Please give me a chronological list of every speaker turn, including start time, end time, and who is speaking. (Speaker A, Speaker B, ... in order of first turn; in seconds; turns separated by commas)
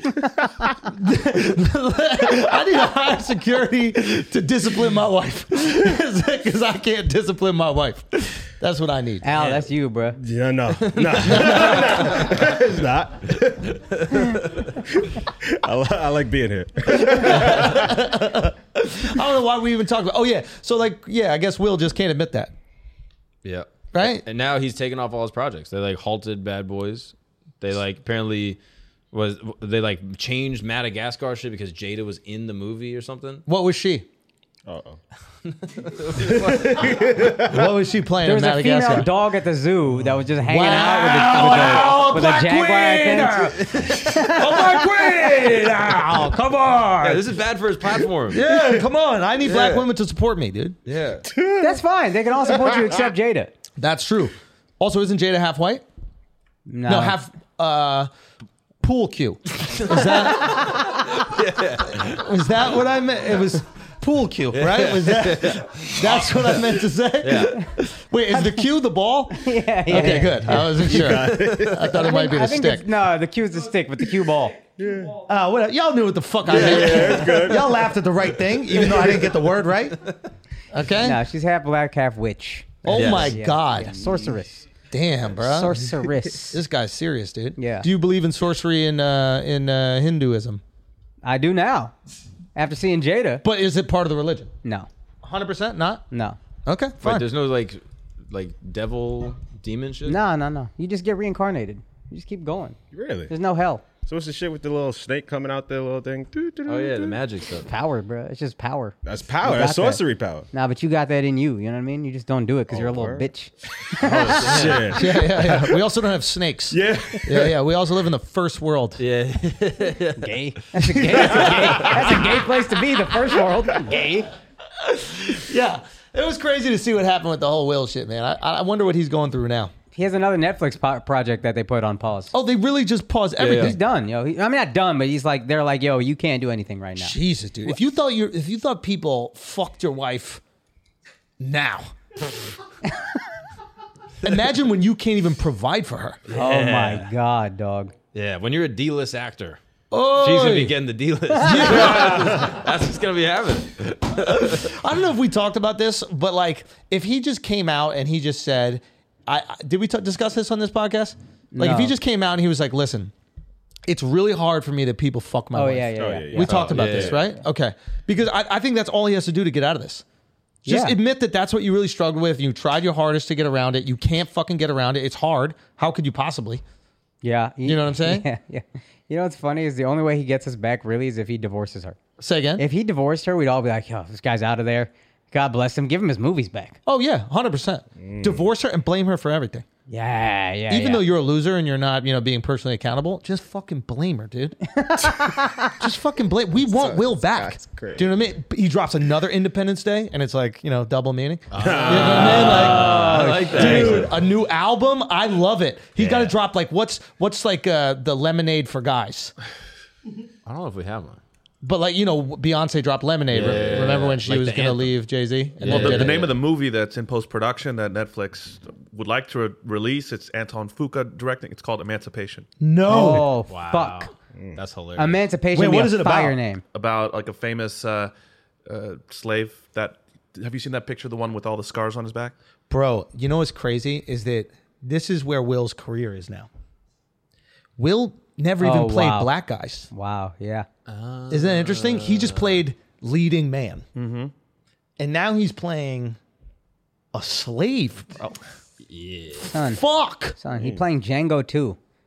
Speaker A: 0.8-9.3, Speaker B: 9.2-10.2, Speaker C: 10.2-18.0, Speaker D: 10.9-12.3, Speaker A: 16.9-22.5, Speaker D: 23.4-28.6, Speaker A: 23.9-24.3, Speaker D: 29.1-33.4, Speaker A: 33.5-34.1, Speaker C: 34.7-35.0, Speaker D: 35.5-37.2, Speaker A: 36.3-39.1, Speaker B: 38.2-44.7, Speaker A: 40.5-47.4, Speaker D: 43.6-44.3, Speaker D: 47.0-48.5, Speaker A: 48.3-50.8, Speaker D: 49.4-49.9, Speaker D: 50.9-51.3, Speaker C: 51.3-51.8, Speaker B: 51.6-53.5, Speaker A: 53.8-55.8, Speaker B: 56.7-57.2, Speaker A: 56.9-58.1, Speaker A: 58.8-60.9, Speaker D: 59.7-62.3, Speaker A: 61.9-72.9, Speaker D: 64.5-67.7, Speaker B: 69.3-70.5, Speaker D: 70.0-71.8, Speaker C: 70.5-72.0, Speaker B: 71.9-74.6, Speaker C: 74.8-75.2, Speaker A: 75.3-80.0, Speaker C: 76.5-78.1, Speaker D: 76.5-77.3, Speaker A: 80.7-81.2, Speaker B: 81.0-84.6, Speaker A: 82.8-84.0, Speaker D: 82.9-83.4, Speaker A: 84.9-90.6, Speaker B: 85.4-86.6, Speaker B: 87.6-87.9, Speaker B: 91.2-91.9, Speaker B: 92.5-93.4, Speaker A: 93.4-94.5, Speaker B: 94.6-94.9, Speaker A: 95.2-96.0, Speaker B: 96.1-96.4, Speaker A: 96.7-97.3, Speaker D: 97.0-100.2, Speaker B: 100.1-102.8, Speaker C: 102.9-103.3, Speaker B: 103.3-103.8, Speaker C: 104.1-107.2, Speaker D: 106.7-107.7, Speaker B: 107.7-114.6, Speaker C: 109.0-110.5, Speaker C: 112.7-113.3, Speaker C: 113.9-115.8, Speaker D: 114.0-115.0, Speaker A: 114.9-119.0, Speaker C: 116.7-117.6, Speaker D: 119.0-120.4, Speaker B: 120.2-124.3, Speaker A: 120.8-122.4, Speaker A: 124.8-129.7, Speaker B: 129.9-132.3, Speaker A: 132.3-133.8, Speaker D: 133.4-133.8, Speaker B: 133.5-137.2, Speaker A: 137.0-140.4, Speaker A: 141.4-141.9, Speaker A: 144.2-146.2, Speaker D: 146.3-147.1, Speaker B: 146.3-147.9, Speaker D: 148.1-149.6, Speaker A: 149.9-150.8, Speaker D: 150.2-154.8, Speaker A: 151.4-152.5, Speaker A: 154.1-163.1, Speaker B: 161.5-161.9, Speaker A: 163.9-170.0, Speaker B: 165.5-166.5, Speaker C: 166.0-167.2, Speaker D: 166.5-167.2, Speaker A: 170.7-176.6, Speaker B: 170.7-171.0, Speaker B: 177.2-182.0, Speaker A: 177.6-178.3, Speaker A: 182.2-182.6, Speaker B: 182.6-186.8, Speaker A: 186.9-189.7, Speaker C: 188.0-188.4, Speaker B: 189.9-191.1, Speaker A: 190.7-209.3, Speaker B: 194.7-195.7, Speaker C: 196.6-198.1, Speaker D: 201.5-204.1, Speaker C: 201.6-204.2, Speaker D: 206.0-206.3, Speaker D: 210.5-211.2, Speaker A: 211.6-216.3, Speaker D: 213.3-214.9, Speaker C: 213.4-213.8, Speaker D: 215.6-216.4, Speaker E: 215.7-222.5, Speaker A: 222.6-223.3, Speaker B: 222.9-224.1, Speaker D: 222.9-225.3, Speaker C: 224.3-224.6, Speaker B: 225.0-226.6, Speaker A: 225.5-226.4, Speaker E: 226.7-228.1, Speaker E: 228.7-232.3, Speaker A: 232.7-236.5, Speaker A: 237.8-239.9, Speaker B: 238.6-239.3, Speaker B: 239.9-240.7, Speaker D: 240.9-242.6, Speaker A: 241.3-243.8, Speaker E: 244.0-244.3, Speaker A: 245.0-246.2, Speaker A: 247.1-248.1, Speaker D: 248.9-249.5, Speaker B: 249.5-249.8, Speaker A: 249.5-250.4, Speaker B: 250.4-251.8